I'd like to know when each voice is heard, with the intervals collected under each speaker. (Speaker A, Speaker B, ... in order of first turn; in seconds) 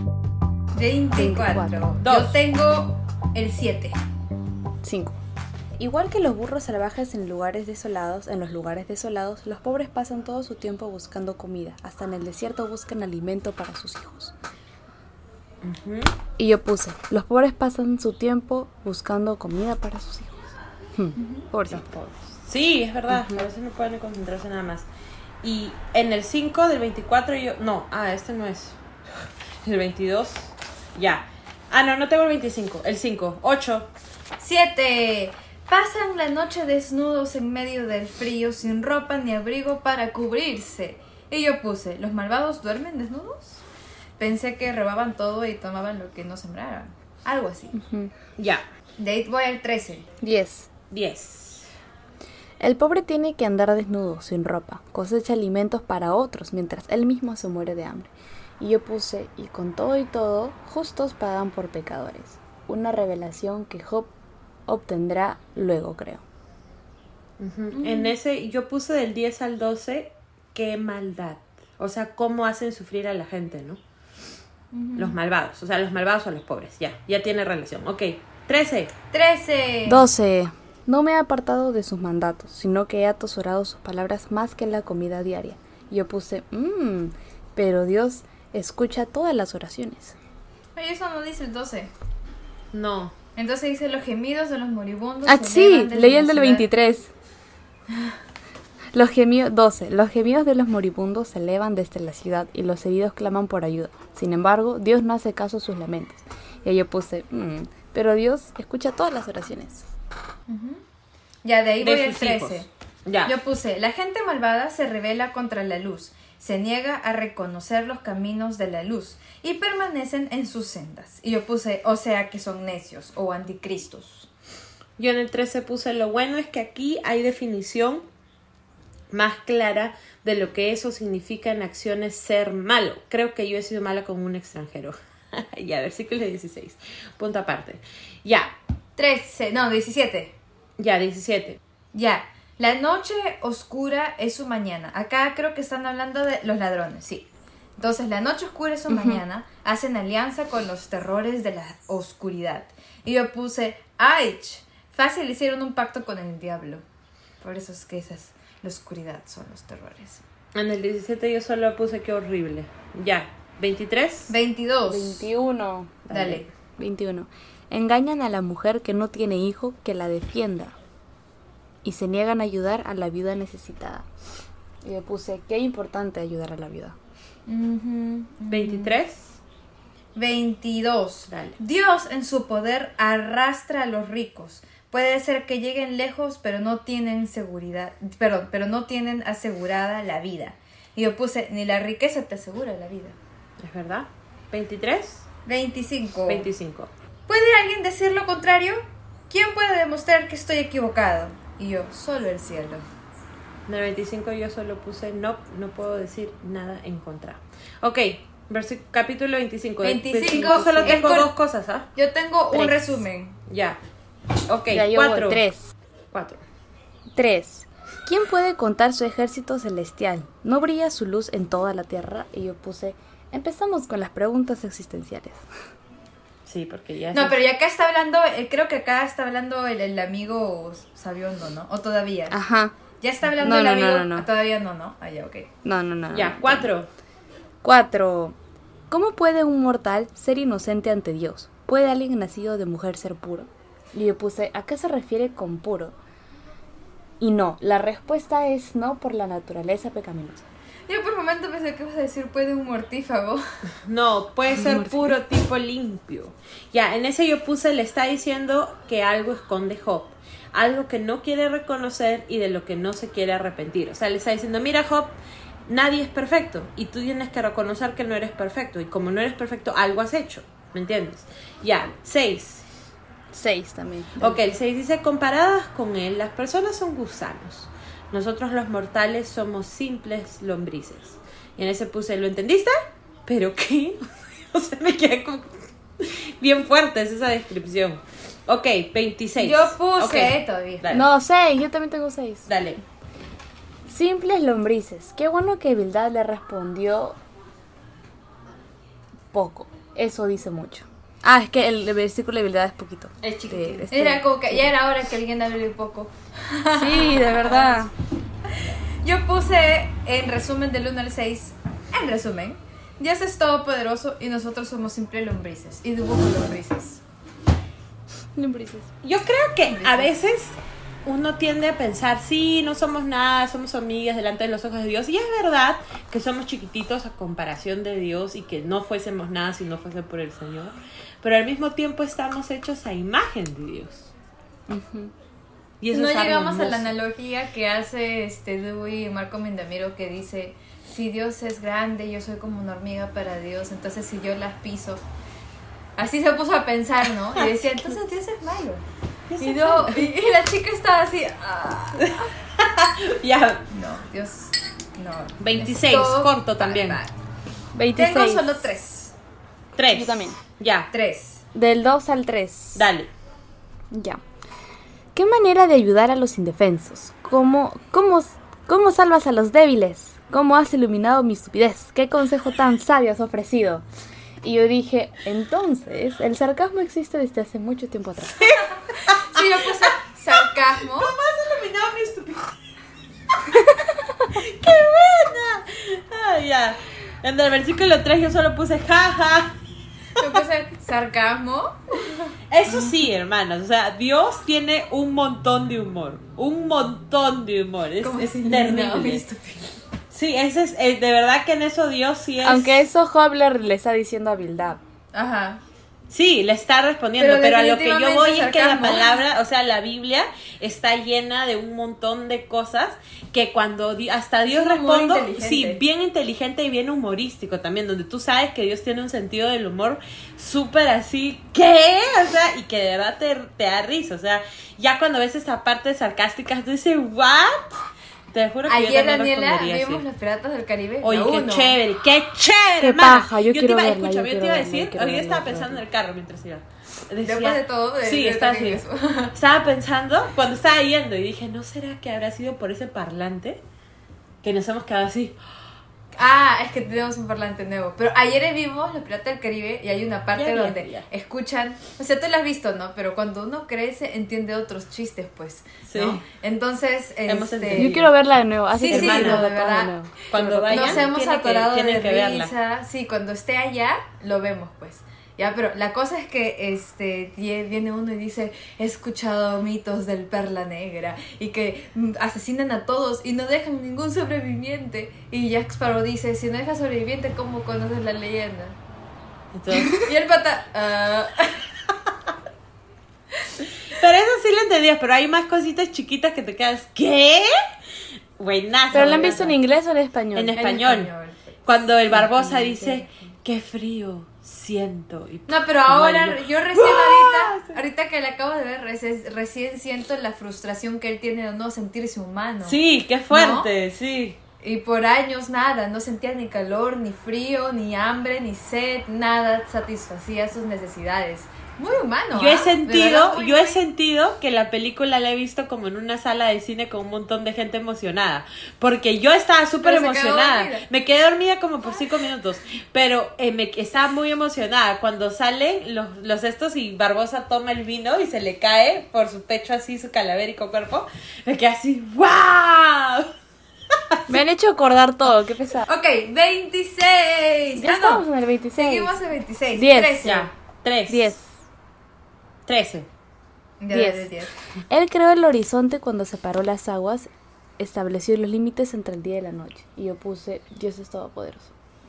Speaker A: 0.7-4.0, 21.2-21.4, 34.4-43.6, 44.2-47.7, 49.0-50.1, 67.7-68.2, 74.7-75.2, 79.1-80.0, 90.8-91.9, 93.3-96.7, 110.5-110.8, 111.4-112.7, 113.2-124.3, 139.0-140.3, 141.9-156.8, 157.4-160.2, 164.3-165.3, 166.1-166.4, 177.5-179.0, 180.1-193.2, 195.4-196.5, 197.3-202.8, 209.8-211.3, 211.9-213.4, 227.1-232.3, 233.0-235.5, 250.9-253.4, 289.4-290.9, 303.9-307.8, 309.0-317.0, 319.6-320.1, 335.9-345.0, 346.0-348.8, 349.4-352.2, 353.7-357.1, 357.9-359.1, 360.9-361.4, 379.1-381.1, 390.2-392.9, 398.0-399.8, 405.1-405.6, 407.2-409.2, 414.5-415.8, 428.6-431.8, 437.2-439.3, 446.1-458.0, 458.7-459.9, 460.7-478.8, 479.7-481.7, 488.9-489.4, 490.6-493.1, 495.5-502.8, 503.3-503.7, 504.6-513.8, 519.8-520.9, 535.9-538.2, 538.8-540.5, 543.8-544.5
Speaker B: 1.1-1.8, 4.8-5.2, 5.8-14.3, 16.4-21.9, 23.1-23.4, 47.7-48.1, 50.2-50.7, 52.6-64.1, 64.7-66.2, 79.9-90.2, 95.2-97.1, 98.9-109.8, 148.9-149.2, 164.9-166.2, 166.8-170.7, 171.8-174.1, 174.8-176.9, 210.3-211.2, 212.5-213.0, 214.7-215.7, 217.1-225.4, 232.3-232.7, 233.4-234.3, 235.6-236.7, 237.6-238.3, 238.9-245.9, 247.2-250.4, 254.5-255.1, 273.3-274.4, 290.9-292.5, 293.9-297.2, 299.3-304.7, 306.7-307.9, 318.4-318.9, 334.7-335.1, 357.7-358.7, 359.9-360.4, 361.5-362.9, 363.9-364.2, 365.1-373.8, 374.4-378.6, 402.4-404.8, 432.8-435.8, 457.7-461.0, 488.9-490.6, 534.3-535.9, 537.8-539.1, 539.7-540.5, 541.1-541.5, 543.9-544.3, 544.9-551.7
Speaker C: 2.0-2.4, 15.6-16.1, 21.7-24.9, 25.4-33.9, 48.4-48.6, 50.9-51.7, 67.4-73.8, 75.0-78.9, 92.7-93.1, 111.8-113.3, 125.0-128.1, 129.1-138.5, 140.8-141.6, 160.5-164.3, 166.1-166.5, 178.5-179.4, 181.3-181.6, 193.6-195.2, 196.3-196.9, 203.7-211.9, 213.5-213.8, 214.5-215.4, 216.1-216.4, 226.4-227.4, 236.1-236.9, 253.8-272.6, 274.2-282.7, 283.2-291.1, 292.5-292.8, 303.2-303.9, 319.0-334.1, 335.8-336.9, 347.4-347.8, 349.3-349.9, 352.0-353.6, 355.4-357.0, 359.7-360.9, 362.7-363.1, 378.4-379.4, 380.3-382.5, 384.3-389.5, 392.5-399.2, 400.1-402.8, 406.1-427.8, 428.3-430.0, 431.0-438.8, 439.3-443.6, 444.4-445.4, 450.3-451.1, 455.9-456.2, 457.2-458.1, 458.9-459.4, 460.3-462.5, 479.5-480.0, 483.9-487.5, 488.4-489.6, 490.3-491.1, 491.6-497.8, 502.6-504.4, 512.3-533.3, 540.2-541.3, 542.7-543.1